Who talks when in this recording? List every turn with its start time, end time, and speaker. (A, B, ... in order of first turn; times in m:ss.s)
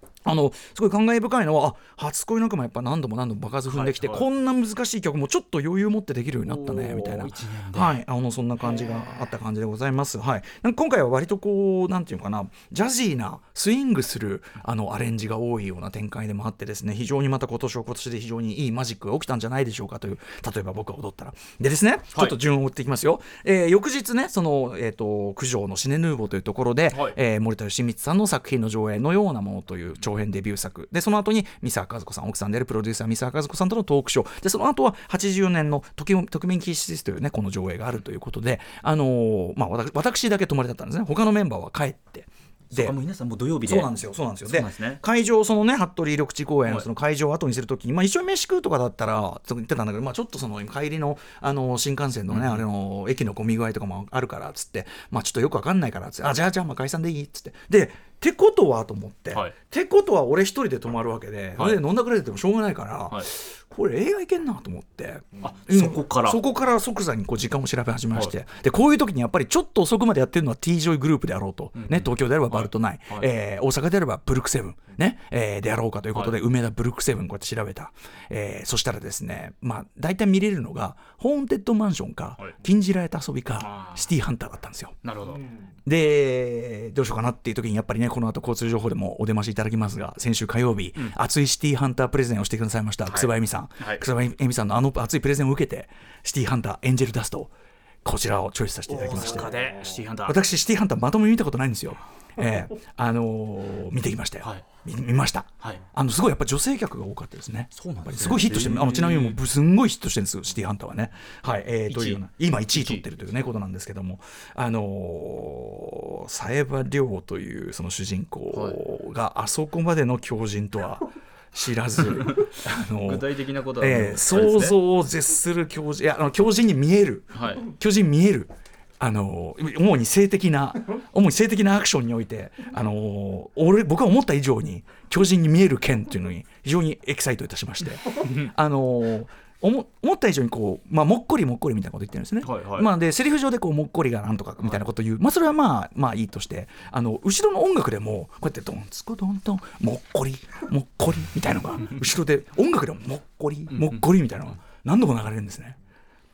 0:00.2-0:42.9 A
0:03.7-0:04.2 B
0:06.4-0:08.0 B
0:42.7-0:43.9 B
0:43.6-1:25.0 A
0:44.4-0:45.0 B
0:52.3-0:52.6 B
1:05.4-1:06.4 B
1:11.8-1:13.3 B
1:23.6-1:24.1 B
1:25.0-1:25.4 B
1:25.8-1:37.5 A
1:33.1-1:34.0 B
1:38.0-1:39.6 A
1:38.9-1:40.4 B
1:40.2-2:03.3 A
1:47.7-1:49.4 B
1:51.9-1:52.2 B
1:52.8-1:53.0 B
2:03.0-2:04.8 B
2:03.8-2:35.8 A
2:07.3-2:07.6 B
2:18.2-2:18.5 B
2:22.4-2:22.9 B